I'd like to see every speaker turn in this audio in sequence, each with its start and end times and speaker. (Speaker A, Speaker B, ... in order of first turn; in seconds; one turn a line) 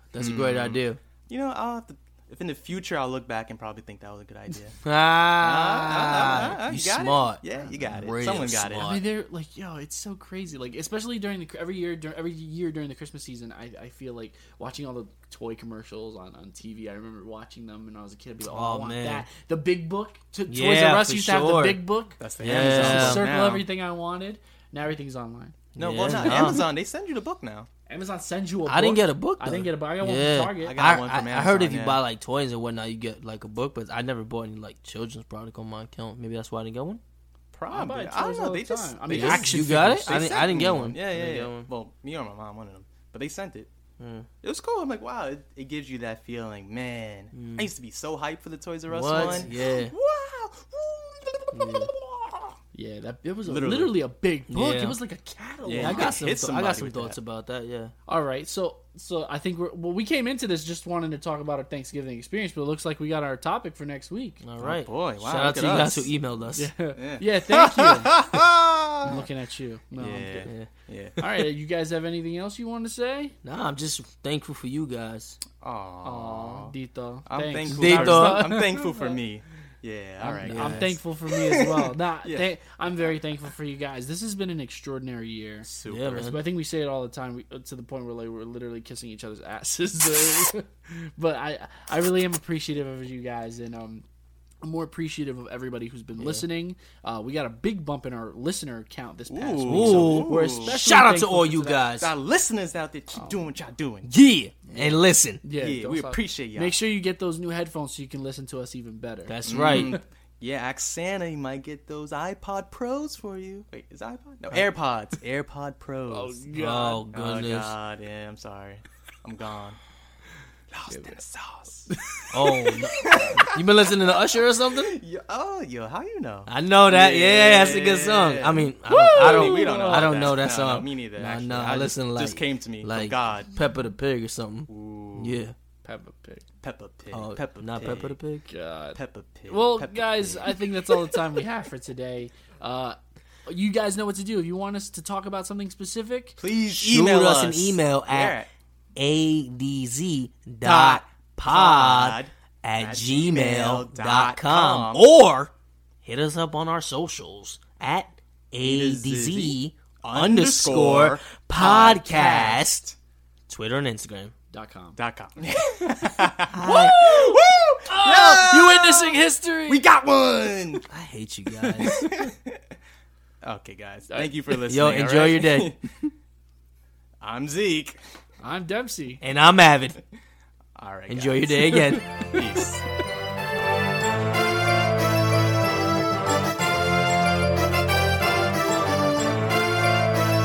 Speaker A: 0.1-1.0
Speaker B: 0.2-4.8
Speaker A: 4.8-9.0
Speaker B: 5.3-8.9
Speaker C: 8.8-25.6
Speaker A: 18.5-19.2
Speaker A: 20.5-21.8
Speaker B: 22.2-23.6
Speaker A: 22.4-23.3
Speaker A: 25.7-26.7
Speaker B: 25.8-27.7
Speaker C: 26.1-26.6
Speaker C: 27.9-30.8
Speaker A: 28.6-37.0
Speaker B: 30.6-32.0
Speaker B: 37.5-43.7
Speaker C: 37.7-40.3
Speaker A: 39.1-41.7
Speaker A: 44.0-44.3
Speaker B: 44.4-52.5
Speaker A: 47.3-47.7
Speaker A: 48.9-49.9
Speaker C: 49.1-49.5
Speaker A: 51.5-51.9
Speaker C: 52.7-56.2
Speaker B: 53.4-54.0
Speaker A: 54.5-55.0
Speaker B: 55.6-57.2
Speaker A: 55.8-57.9
Speaker C: 58.0-64.4
Speaker A: 64.4-66.7
Speaker B: 64.6-66.1
Speaker C: 66.5-68.2
Speaker B: 67.0-69.2
Speaker C: 69.0-70.5
Speaker B: 70.0-71.2
Speaker A: 70.4-70.7
Speaker C: 71.2-73.3
Speaker A: 73.4-75.4
Speaker B: 75.6-76.7
Speaker C: 76.0-79.2
Speaker B: 77.2-82.5
Speaker A: 77.6-78.6
Speaker C: 80.2-85.7
Speaker A: 80.4-81.0
Speaker B: 85.6-86.3
Speaker A: 85.8-86.4
Speaker C: 86.2-94.0
Speaker C: 94.6-101.9
Speaker A: 96.2-96.4
Speaker B: 99.3-100.7
Speaker A: 99.6-102.1
Speaker B: 102.0-104.1
Speaker C: 103.1-103.4
Speaker A: 104.0-105.4
Speaker C: 104.7-110.0
Speaker B: 105.5-106.8
Speaker A: 109.2-110.0
Speaker B: 109.5-116.5
Speaker C: 116.1-117.0
Speaker A: 116.5-117.8
Speaker B: 117.1-119.8
Speaker B: 120.7-121.9
Speaker C: 120.9-121.2
Speaker C: 121.9-123.1
Speaker A: 122.3-125.0
Speaker B: 123.1-123.4
Speaker B: 124.7-133.5
Speaker A: 126.5-135.5
Speaker C: 128.9-130.3
Speaker B: 134.7-135.4
Speaker C: 135.8-136.4
Speaker B: 136.6-138.2
Speaker A: 137.1-138.5
Speaker C: 138.5-139.0
Speaker B: 138.9-140.7
Speaker C: 139.5-146.4
Speaker B: 146.4-148.5
Speaker A: 146.8-148.4
Speaker A: 148.9-155.5
Speaker B: 150.6-155.1
Speaker A: 156.0-162.9
Speaker B: 158.6-162.9
Speaker A: 163.5-164.3
Speaker C: 164.5-165.0
Speaker B: 164.9-170.8
Speaker A: 166.5-167.4
Speaker C: 167.9-169.8
Speaker A: 170.9-172.1
Speaker B: 171.6-172.5
Speaker B: 173.4-175.8
Speaker C: 174.1-174.4
Speaker A: 174.6-175.8
Speaker B: 177.2-178.0
Speaker C: 178.4-179.2
Speaker A: 179.2-180.0
Speaker B: 180.8-181.8
Speaker A: 181.1-182.0
Speaker B: 182.3-182.8